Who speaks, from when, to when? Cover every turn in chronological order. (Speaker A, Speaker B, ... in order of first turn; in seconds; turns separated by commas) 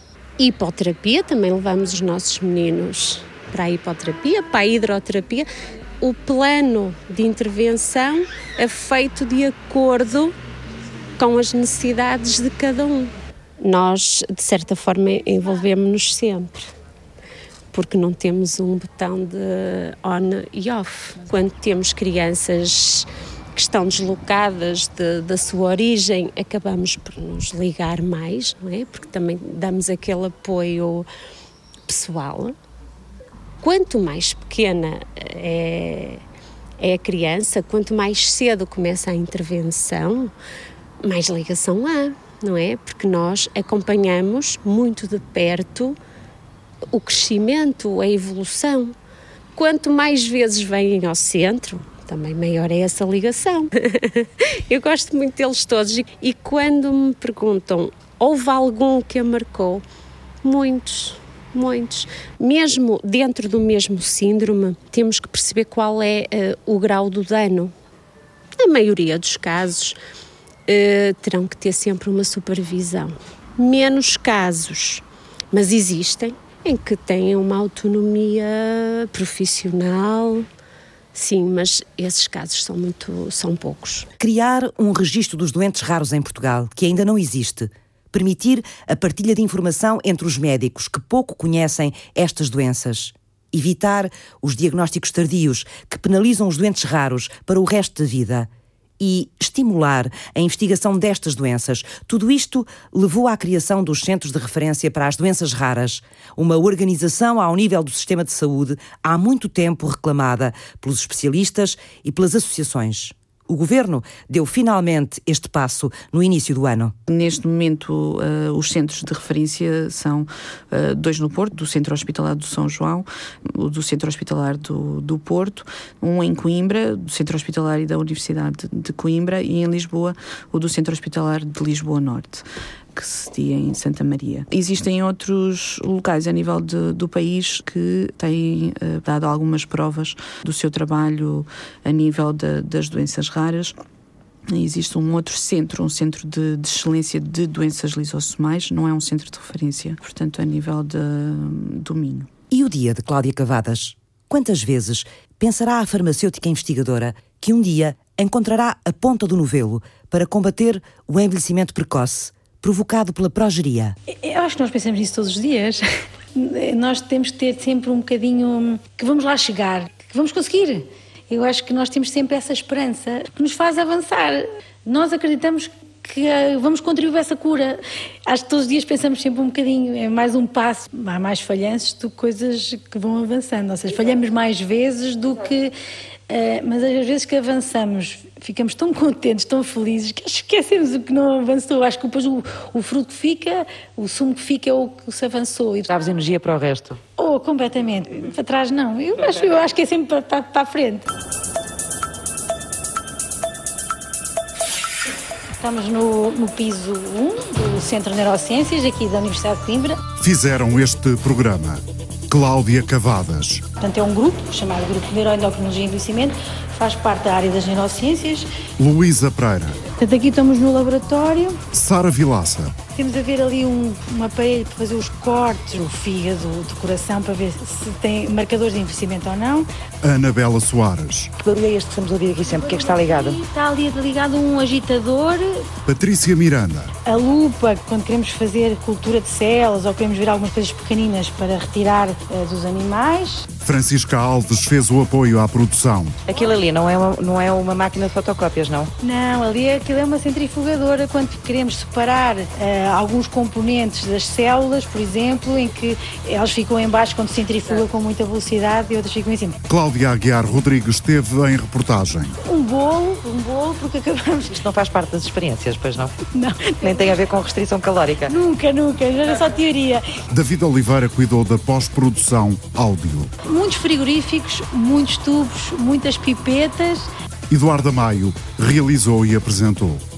Speaker A: 0.4-5.5, Speaker A: 6.0-10.3, Speaker A: 11.2-16.7, Speaker A: 17.7-31.1, Speaker A: 31.9-32.5, Speaker A: 33.6-36.2, Speaker A: 36.8-40.3, Speaker A: 41.0-46.0, Speaker A: 46.9-48.9, Speaker A: 49.5-59.8, Speaker A: 60.4-67.7, Speaker A: 68.6-70.0, Speaker A: 70.7-80.5, Speaker A: 81.1-84.1, Speaker B: 84.2-98.5, Speaker B: 99.0-116.9, Speaker C: 117.1-143.7, Speaker C: 144.5-152.3, Speaker B: 152.5-163.9, Speaker D: 164.1-165.8, Speaker D: 166.3-185.7, Speaker D: 186.3-195.9, Speaker E: 195.9-197.0, Speaker D: 197.2-201.1, Speaker D: 205.6-210.0, Speaker F: 210.2-213.6, Speaker D: 213.8-218.5, Speaker F: 218.8-219.8, Speaker D: 220.0-221.6, Speaker F: 221.7-222.7, Speaker D: 222.9-229.7, Speaker F: 230.0-231.3, Speaker E: 231.4-233.4, Speaker D: 232.5-235.6, Speaker F: 235.8-236.9, Speaker D: 237.0-243.4, Speaker F: 243.6-246.2, Speaker E: 246.2-248.9, Speaker D: 249.0-259.6, Speaker F: 259.7-262.3, Speaker D: 262.4-264.6, Speaker E: 264.5-266.1, Speaker D: 266.3-267.1, Speaker E: 266.8-268.3, Speaker D: 268.3-270.0, Speaker F: 270.3-273.3, Speaker D: 273.4-277.1, Speaker F: 277.5-280.0